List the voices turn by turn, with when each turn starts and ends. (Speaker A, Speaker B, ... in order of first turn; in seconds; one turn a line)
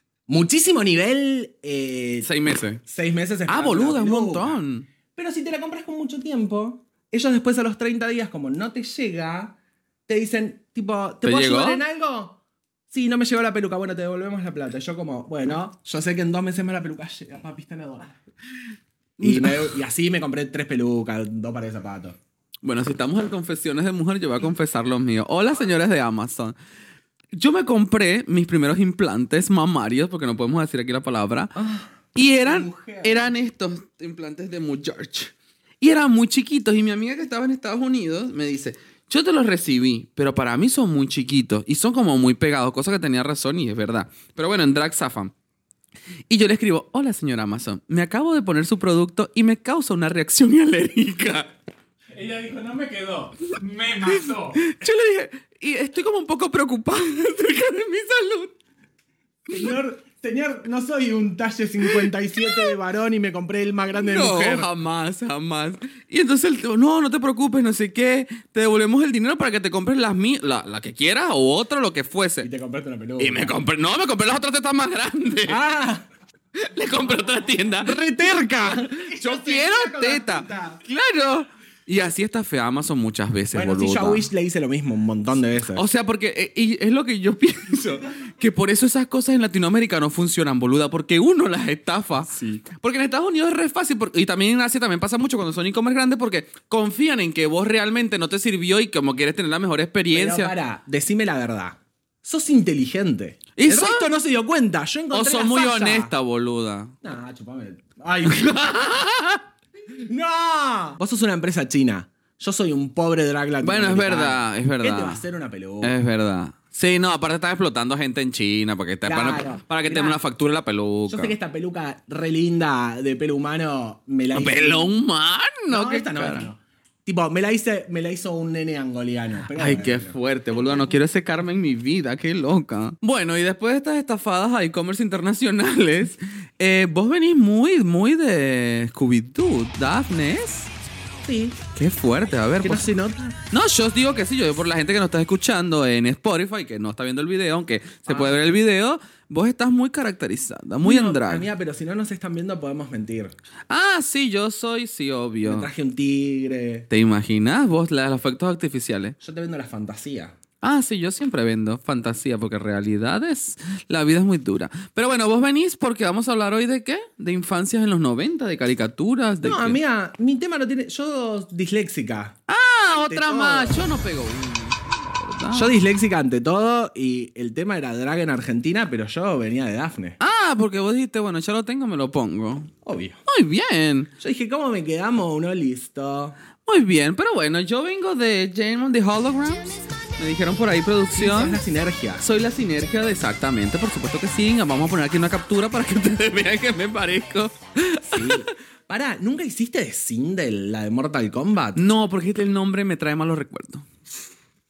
Speaker A: 0.3-2.3
Speaker B: 2.2-2.8
Speaker A: 2.8-4.6
Speaker B: 3.5-4.9
Speaker A: 5.1-9.6
Speaker A: 10.1-12.4
Speaker B: 11.2-11.8
Speaker A: 12.9-18.2
Speaker B: 19.2-19.7
Speaker A: 19.2-22.2
Speaker B: 22.6-26.6
Speaker B: 27.3-31.6
Speaker A: 31.6-33.3
Speaker B: 32.1-45.3
Speaker B: 46.3-51.5
Speaker C: 52.1-54.6
Speaker B: 54.6-58.5
Speaker A: 59.5-64.7
Speaker B: 64.0-72.5
Speaker A: 72.4-73.6
Speaker B: 73.2-75.6
Speaker A: 75.5-76.1
Speaker B: 76.5-78.0
Speaker A: 77.8-80.8
Speaker B: 78.6-84.3
Speaker A: 83.5-85.8
Speaker B: 85.7-100.5
Speaker A: 92.2-92.6
Speaker A: 100.1-106.1
Speaker B: 103.6-104.1
Speaker B: 105.1-106.9
Speaker A: 107.0-108.6
Speaker B: 108.2-109.4
Speaker A: 109.9-115.9
Speaker B: 113.6-115.2
Speaker B: 115.8-121.3
Speaker A: 119.1-120.2
Speaker A: 121.1-124.9
Speaker B: 124.3-126.5
Speaker A: 125.7-130.2
Speaker B: 129.5-140.7
Speaker A: 141.2-141.6
Speaker B: 141.7-142.9
Speaker A: 142.6-143.4
Speaker B: 143.5-151.5
Speaker A: 148.1-148.4
Speaker A: 150.8-153.3
Speaker B: 153.7-155.7
Speaker A: 155.4-156.9
Speaker B: 156.9-159.2
Speaker A: 159.2-160.3
Speaker B: 160.6-169.8
Speaker A: 169.4-172.4
Speaker B: 172.5-175.7
Speaker A: 172.9-173.8
Speaker A: 175.5-180.2
Speaker B: 180.2-182.7
Speaker A: 182.8-183.2
Speaker B: 183.3-184.1
Speaker A: 184.2-186.3
Speaker B: 186.7-191.6
Speaker A: 191.1-192.2
Speaker B: 192.2-198.4
Speaker A: 198.1-201.8
Speaker B: 201.8-203.8